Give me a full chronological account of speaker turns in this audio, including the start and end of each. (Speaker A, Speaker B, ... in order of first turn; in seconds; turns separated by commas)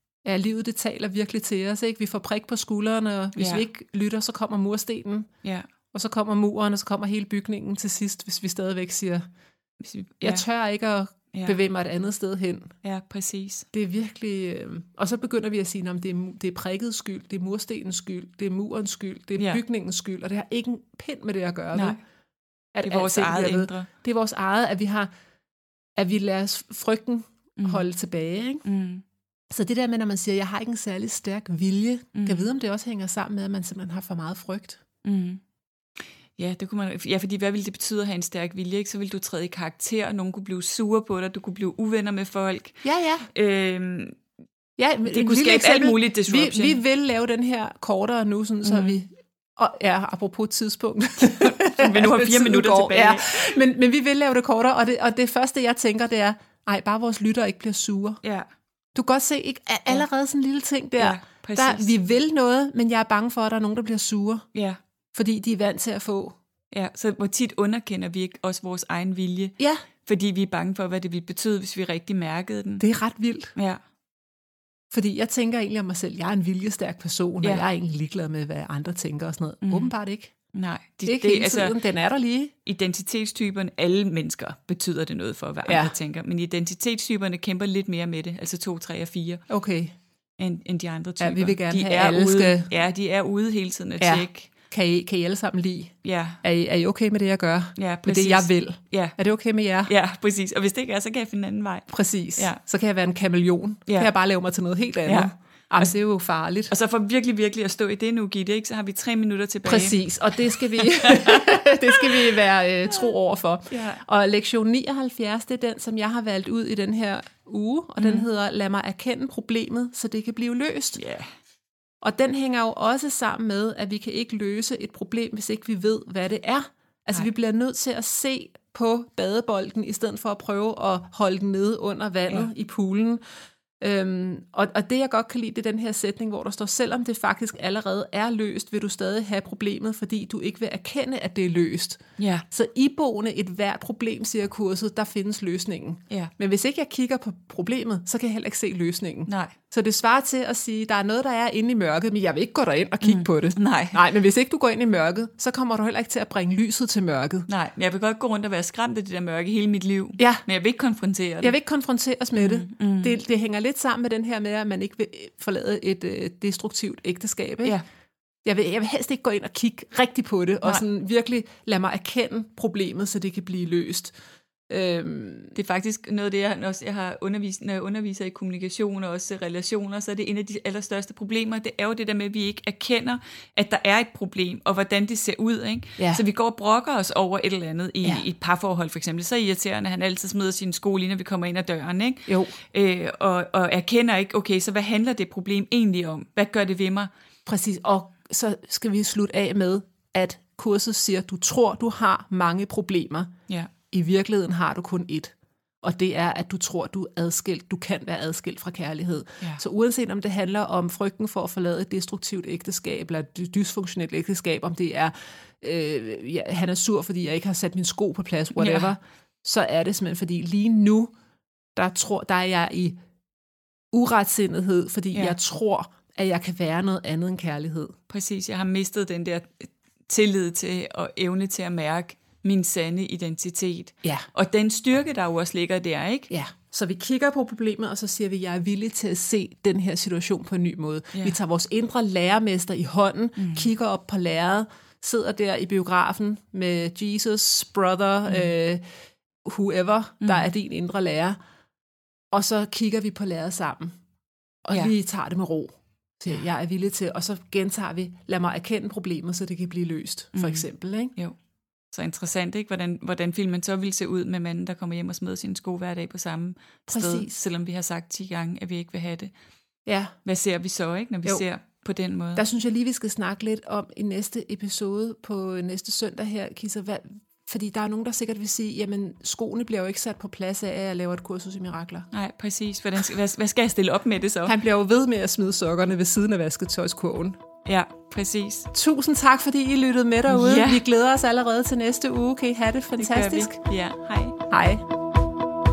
Speaker A: 0.2-5.3, Speaker B: 3.4-3.6, Speaker A: 5.9-9.3, Speaker B: 9.8-10.4, Speaker A: 10.2-12.7, Speaker B: 12.8-13.7, Speaker A: 13.7-22.0, Speaker B: 19.4-19.6, Speaker B: 21.7-22.0, Speaker A: 22.7-25.1, Speaker B: 22.8-23.9, Speaker A: 26.0-28.6, Speaker B: 27.6-27.8, Speaker B: 28.6-29.0, Speaker A: 29.5-34.8, Speaker B: 32.1-32.5, Speaker B: 35.0-35.4, Speaker B: 36.4-44.2, Speaker A: 42.8-43.3, Speaker A: 44.8-58.2, Speaker B: 45.1-46.8, Speaker B: 48.6-49.0, Speaker B: 51.2-53.5, Speaker A: 59.0-64.5, Speaker B: 61.0-61.9, Speaker A: 65.1-66.4, Speaker B: 66.7-72.8, Speaker A: 72.8-73.5, Speaker B: 73.5-73.8, Speaker A: 74.9-80.3, Speaker B: 79.7-79.9, Speaker B: 80.5-81.8, Speaker A: 81.1-82.5, Speaker B: 82.7-89.4, Speaker A: 85.7-86.0, Speaker A: 89.5-90.0, Speaker B: 90.4-94.5, Speaker A: 91.2-92.7, Speaker A: 94.0-99.9, Speaker B: 96.0-96.4, Speaker B: 97.8-99.2, Speaker B: 99.9-102.6, Speaker A: 101.9-106.7, Speaker B: 105.0-105.9, Speaker B: 106.7-112.4, Speaker A: 109.7-121.0, Speaker B: 113.7-114.0, Speaker B: 118.0-118.3, Speaker B: 121.0-121.3, Speaker A: 122.0-133.2, Speaker A: 133.8-142.0, Speaker B: 142.2-142.4, Speaker A: 142.5-157.5, Speaker B: 149.3-149.6, Speaker B: 153.0-154.0, Speaker B: 157.5-161.6, Speaker A: 160.2-160.4, Speaker A: 161.4-167.8, Speaker B: 162.4-163.2, Speaker A: 168.4-174.1, Speaker A: 174.7-175.5, Speaker B: 175.6-197.1, Speaker A: 186.0-186.2, Speaker A: 192.3-192.5, Speaker A: 197.5-203.3, Speaker A: 203.9-221.1, Speaker B: 218.6-218.9, Speaker A: 221.8-223.0, Speaker A: 223.9-227.9, Speaker B: 228.1-236.3, Speaker A: 236.3-248.8, Speaker B: 243.4-243.7, Speaker A: 249.4-251.4, Speaker B: 250.2-250.5, Speaker A: 252.3-254.0, Speaker A: 254.7-261.1, Speaker B: 260.4-261.4, Speaker B: 261.9-269.3, Speaker A: 266.9-267.3, Speaker A: 269.9-270.1, Speaker B: 270.2-272.4, Speaker A: 272.4-282.1, Speaker B: 282.1-284.6, Speaker A: 284.5-287.4, Speaker B: 287.7-288.7, Speaker A: 288.7-293.6, Speaker B: 290.3-290.8, Speaker B: 293.0-294.4, Speaker A: 294.5-294.8